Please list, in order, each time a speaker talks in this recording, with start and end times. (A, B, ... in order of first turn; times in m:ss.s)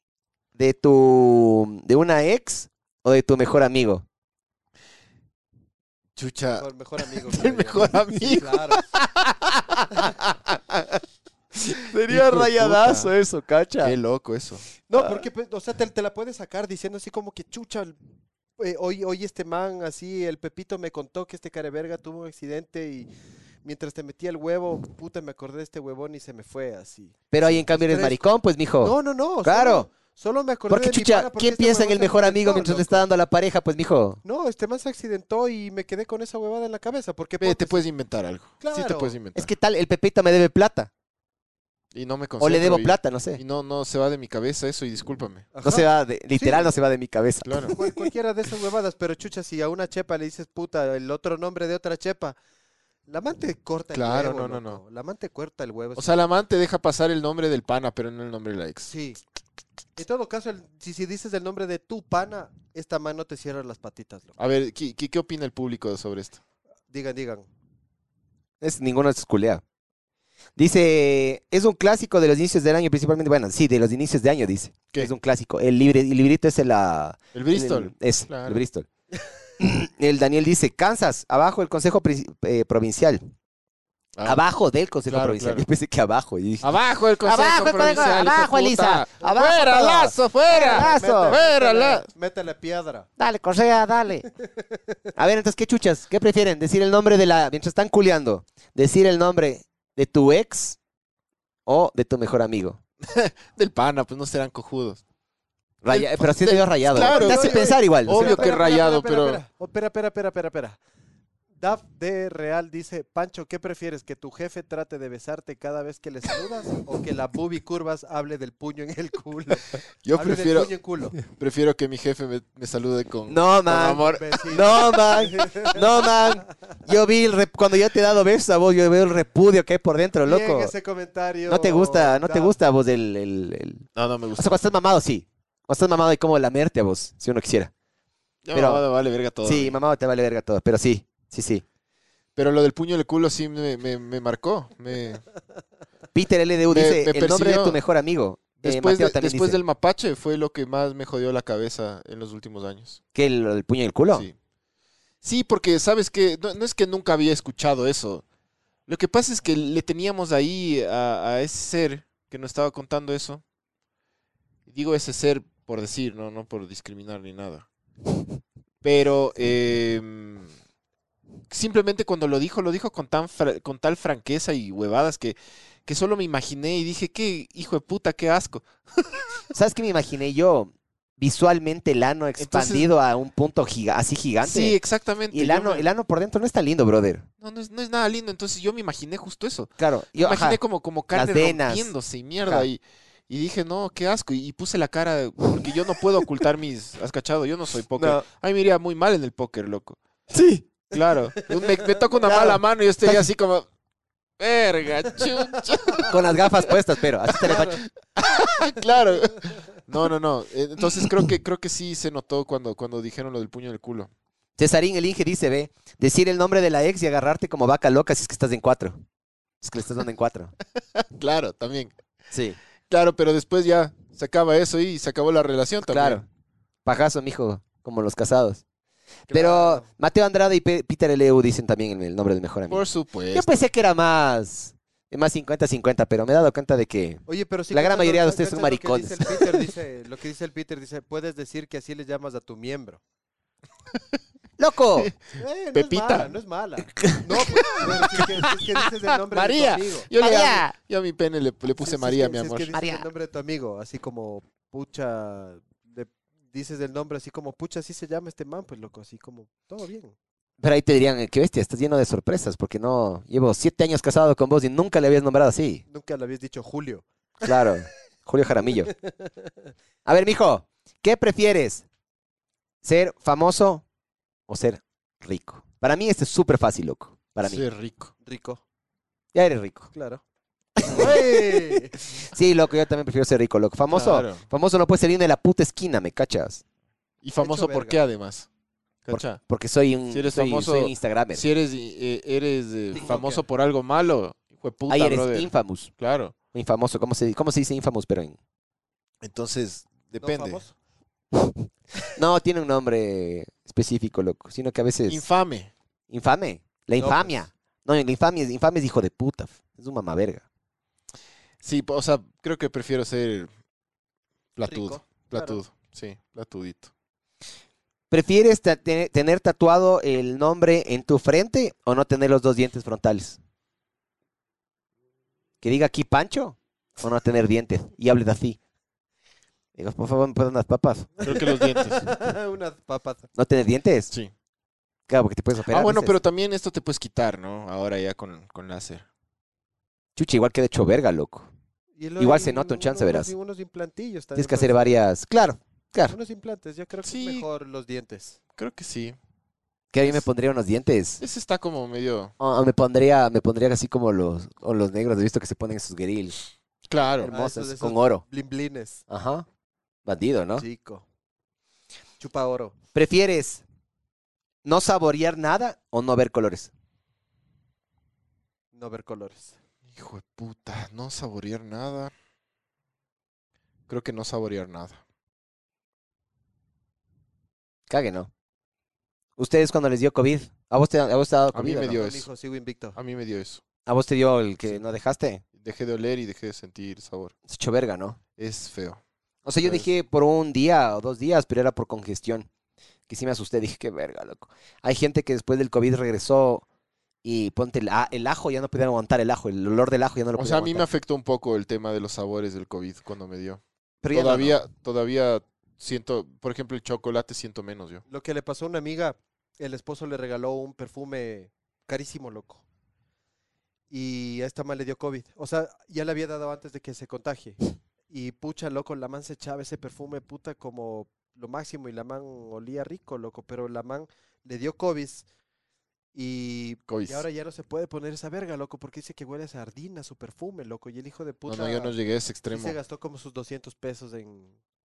0:00.6-0:04.0 A
0:06.2-0:09.4 B
0:06.6-0:08.8 C
0:09.8-0:11.0 A
0:11.6-0:13.9 A
0:12.1-0:13.1 B
0:13.8-0:14.6 B
0:14.9-0:18.0 C
0:18.6-0:23.1 C
0:23.6-0:28.3 C
0:27.3-0:29.9 A
0:28.8-0:33.1 C
0:30.7-0:34.2 A
0:34.2-0:37.8 C
0:37.4-0:39.5 B
0:38.6-0:39.2 C
0:39.4-0:40.9 A
0:41.9-0:45.5 B
0:42.4-0:43.4 A
0:45.5-0:46.8 C
0:45.6-0:47.9 A
0:47.4-0:47.7 B
0:47.7-0:52.4 C
0:53.1-0:56.1 C
0:53.9-0:54.8 B
0:56.0-0:58.9 B
0:58.9-0:59.2 C
1:00.0-1:04.4 C
1:04.4-1:06.4 B
1:06.9-1:07.5 C
1:08.6-1:09.6 A
1:10.6-1:18.9 A
1:17.3-1:18.6 B
1:19.6-1:23.3 A
1:24.2-1:24.4 B
1:24.2-1:31.4 A
1:25.1-1:25.6 B
1:26.6-1:32.1 B
1:30.5-1:33.1 C
1:33.2-1:34.3 A
1:34.4-1:34.8 C
1:35.2-1:40.8 A
1:41.7-1:42.8 A
1:43.0-1:45.0 B
1:45.8-1:48.5 A
1:45.9-1:49.4 B
1:47.0-1:50.8 C
1:51.6-2:01.2 C
2:00.0-2:00.7 B
2:01.2-2:04.3 B
2:03.3-2:10.7 A
2:03.8-2:06.4 C
2:10.2-2:12.6 C
2:11.5-2:17.7 A
2:14.0-2:14.6 B
2:18.4-2:19.8 B
2:18.5-2:18.8 A
2:19.4-2:21.6 A
2:22.4-2:25.2 B
2:26.1-2:29.6 A
2:26.7-2:27.8 B
2:28.6-2:33.0 B
2:33.1-2:34.3 A
2:35.2-2:38.2 B
2:38.9-2:43.4 B
2:44.7-2:47.7 B
2:48.8-2:50.5 B
2:51.5-2:59.4 B
2:59.5-3:04.8 A
3:02.4-3:02.9 B
3:04.4-3:05.9 B
3:05.3-3:07.3 A
3:07.4-3:20.0 B
3:09.8-3:10.6 A
3:11.1-3:11.9 A
3:18.0-3:18.2 A
3:20.3-3:20.8 A
3:20.9-3:23.7 B
3:22.2-3:23.2 A
3:24.4-3:26.5 B
3:26.1-3:27.8 A
3:27.5-3:34.1 B
3:34.6-3:39.0 A
3:39.6-3:40.5 A
3:41.0-3:41.9 B
3:42.3-3:42.6 A
3:42.9-3:46.2 B
3:45.8-3:46.2 A
3:46.8-3:48.6 A
3:49.3-3:49.8 B
3:49.3-3:59.6 A
3:49.5-3:49.8 C
3:52.7-3:53.5 B
3:57.3-4:03.0 C
4:04.6-4:05.1 A
4:05.4-4:10.1 C
4:05.7-4:06.3 B
4:07.7-4:12.7 B
4:10.2-4:10.7 A
4:11.8-4:20.2 C
4:12.7-4:13.1 A
4:20.6-4:25.8 A
4:25.9-4:27.0 C
4:27.4-4:28.9 A
4:28.7-4:29.5 C
4:30.0-4:31.8 A
4:32.8-4:33.8 A
4:34.5-4:37.6 A
4:37.4-4:38.1 B
4:38.2-4:38.6 C
4:39.3-4:39.9 A
4:39.9-4:40.2 C
4:40.8-4:46.6 A
4:40.8-4:42.0 C
4:43.9-4:44.4 B
4:47.2-4:48.5 B
4:47.4-4:48.0 C
4:49.1-4:49.4 B
4:49.1-4:51.4 A
4:50.1-4:56.3 B
4:52.9-4:53.4 C
4:54.9-4:55.9 A
4:56.5-4:58.4 A
4:59.2-5:00.6 B
5:00.2-5:00.7 C
5:01.4-5:05.2 A
5:05.1-5:05.7 B
5:06.1-5:10.4 A
5:07.0-5:07.4 C
5:11.6-5:13.5 B
5:14.6-5:16.9 B
5:14.7-5:15.6 C
5:18.1-5:23.4 A
5:25.6-5:28.6 A
5:29.8-5:31.1 A
5:31.2-5:32.0 B
5:31.2-5:33.3 C
5:33.4-5:34.1 A
5:35.1-5:36.2 A
5:35.7-5:39.1 B
5:40.2-5:41.5 A
5:42.0-5:44.9 C
5:42.2-5:43.3 A
5:44.4-5:46.2 A
5:46.1-5:48.4 C
5:47.0-5:47.5 B
5:48.6-5:49.2 B
5:49.9-5:51.2 A
5:51.2-5:52.3 B
5:52.4-5:56.4 A
5:56.9-5:57.3 B
5:57.2-5:58.2 A
5:57.3-5:59.0 C
5:59.1-5:59.5 A
6:00.1-6:00.6 A
6:00.6-6:01.0 C
6:02.2-6:02.8 C
6:02.9-6:03.6 A
6:04.6-6:06.7 A
6:08.7-6:09.6 C
6:09.9-6:12.1 B
6:13.9-6:15.0 B
6:17.9-6:18.3 A
6:19.4-6:22.0 A
6:21.5-6:22.3 B
6:21.9-6:23.0 C
6:23.0-6:23.6 B
6:23.9-6:25.4 A
6:25.6-6:27.3 B
6:27.5-6:28.2 A
6:28.4-6:29.0 B
6:29.4-6:32.5 A
6:29.6-6:29.9 B
6:33.1-6:36.6 A
6:37.2-6:40.9 A
6:40.4-6:48.0 B
6:44.0-6:44.6 A
6:48.1-6:52.6 C
6:53.9-7:05.3 C
7:06.1-7:11.9 C
7:06.9-7:07.2 B
7:11.5-7:12.8 B
7:12.5-7:14.5 C